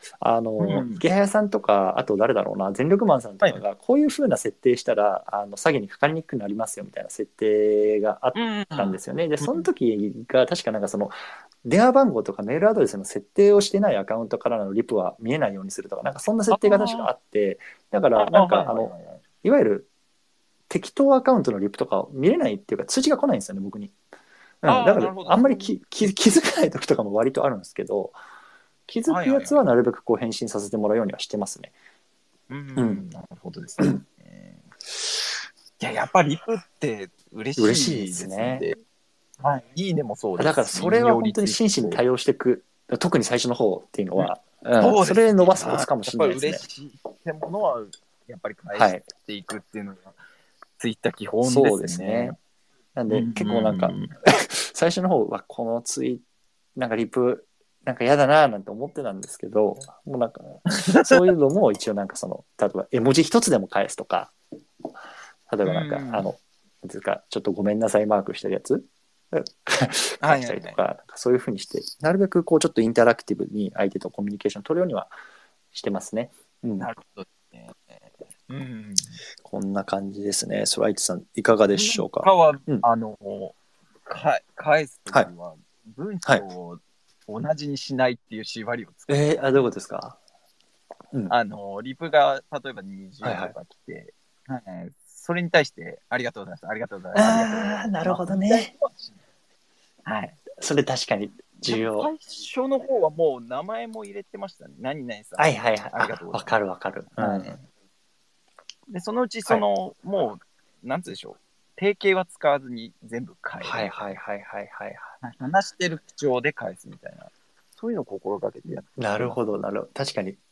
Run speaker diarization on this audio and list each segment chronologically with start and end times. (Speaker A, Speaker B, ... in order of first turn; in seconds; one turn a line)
Speaker A: 0.2-19.9
Speaker B: 0.6-1.0
Speaker B: 8.3-9.7
Speaker B: 16.5-17.1
Speaker B: 18.1-19.2
Speaker A: 20.7-23.9
Speaker A: 24.6-28.1
Speaker B: 24.6-25.8
Speaker A: 28.9-31.7
Speaker B: 29.1-29.6
Speaker B: 32.5-34.6
Speaker A: 32.8-33.0
Speaker B: 35.8-38.8
Speaker A: 37.6-38.7
Speaker B: 39.4-42.0
Speaker A: 40.4-46.6
Speaker B: 44.2-50.1
Speaker A: 48.7-49.0
Speaker B: 50.8-52.4
Speaker A: 51.4-52.4
Speaker A: 52.9-56.2
Speaker B: 53.1-54.1
Speaker A: 56.8-64.3
Speaker B: 60.7-61.2
Speaker A: 65.5-75.1
Speaker B: 65.6-66.3
Speaker B: 70.2-70.8
Speaker A: 75.7-76.9
Speaker B: 76.8-79.2
Speaker A: 79.4-82.8
Speaker B: 81.7-83.5
Speaker B: 84.1-89.6
Speaker A: 89.1-90.2
Speaker B: 91.3-99.2
Speaker A: 93.2-93.5
Speaker A: 97.1-98.7
Speaker B: 100.0-100.4
Speaker A: 100.5-102.1
Speaker B: 101.6-106.5
Speaker A: 105.4-107.5
Speaker B: 107.2-107.7
Speaker B: 108.9-114.2
Speaker A: 113.6-115.1
Speaker B: 115.2-119.4
Speaker A: 119.0-120.4